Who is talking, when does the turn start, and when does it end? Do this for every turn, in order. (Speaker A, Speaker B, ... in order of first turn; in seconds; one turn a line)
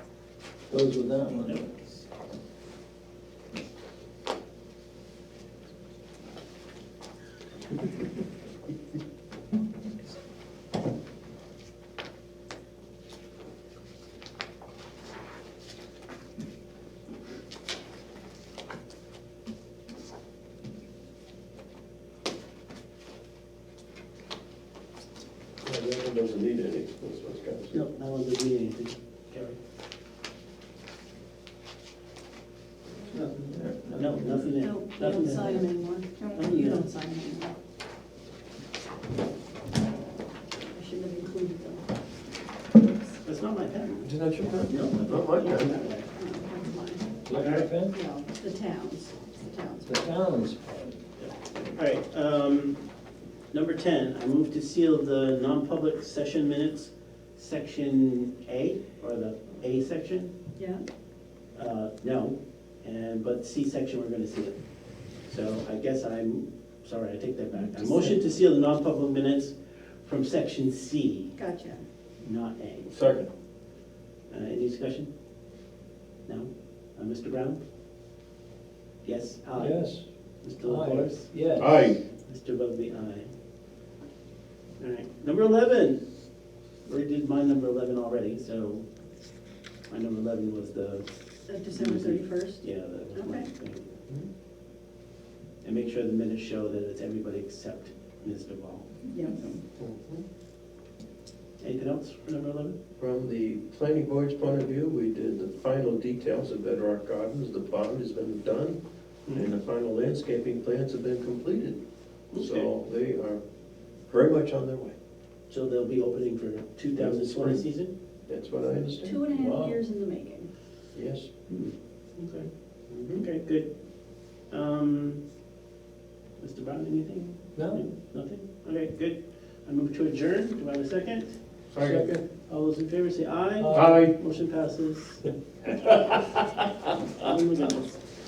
Speaker A: 0.7-1.7
Speaker B: 1.4-2.0
Speaker C: 25.6-27.8
Speaker B: 27.7-29.6
Speaker A: 33.1-34.4
Speaker B: 33.9-35.8
Speaker D: 34.6-37.5
Speaker B: 36.3-36.9
Speaker D: 40.7-41.8
Speaker B: 43.2-44.1
Speaker C: 44.0-45.7
Speaker B: 44.7-46.1
Speaker D: 46.1-47.2
Speaker A: 47.2-47.9
Speaker B: 47.3-47.7
Speaker D: 47.8-50.0
Speaker A: 49.8-50.6
Speaker B: 51.2-52.8
Speaker B: 53.5-60.3
Speaker D: 60.5-60.8
Speaker B: 61.5-64.6
Speaker B: 65.2-71.4
Speaker D: 67.6-67.9
Speaker D: 71.4-71.8
Speaker B: 72.2-72.9
Speaker C: 72.9-73.3
Speaker B: 74.3-75.1
Speaker B: 76.2-77.6
Speaker B: 79.0-79.9
Speaker A: 79.5-80.0
Speaker B: 80.4-81.3
Speaker A: 80.6-81.7
Speaker C: 81.6-82.0
Speaker B: 82.2-83.3
Speaker B: 84.8-86.0
Speaker B: 86.8-88.9
Speaker B: 89.9-91.1
Speaker D: 91.5-93.5
Speaker B: 91.7-94.0
Speaker B: 95.6-99.6
Speaker D: 99.1-99.5
Speaker C: 99.8-100.2
Speaker B: 101.6-102.8
Speaker C: 103.0-111.8
Speaker B: 112.3-112.7
Speaker C: 112.3-113.4
Speaker C: 114.1-114.9
Speaker B: 115.5-117.9
Speaker C: 117.0-117.7
Speaker C: 118.3-119.3
Speaker D: 119.0-120.5
Speaker A: 119.3-119.7
Speaker C: 120.9-121.3
Speaker B: 121.5-123.7
Speaker C: 122.9-123.2
Speaker B: 124.5-125.2
Speaker B: 126.4-131.3
Speaker A: 127.6-127.8
Speaker C: 131.7-132.2
Speaker A: 131.8-132.2
Speaker B: 132.5-135.3
Speaker A: 133.6-134.0
Speaker C: 133.7-134.1
Speaker C: 135.8-136.6
Speaker B: 135.9-136.2
Speaker B: 137.1-138.0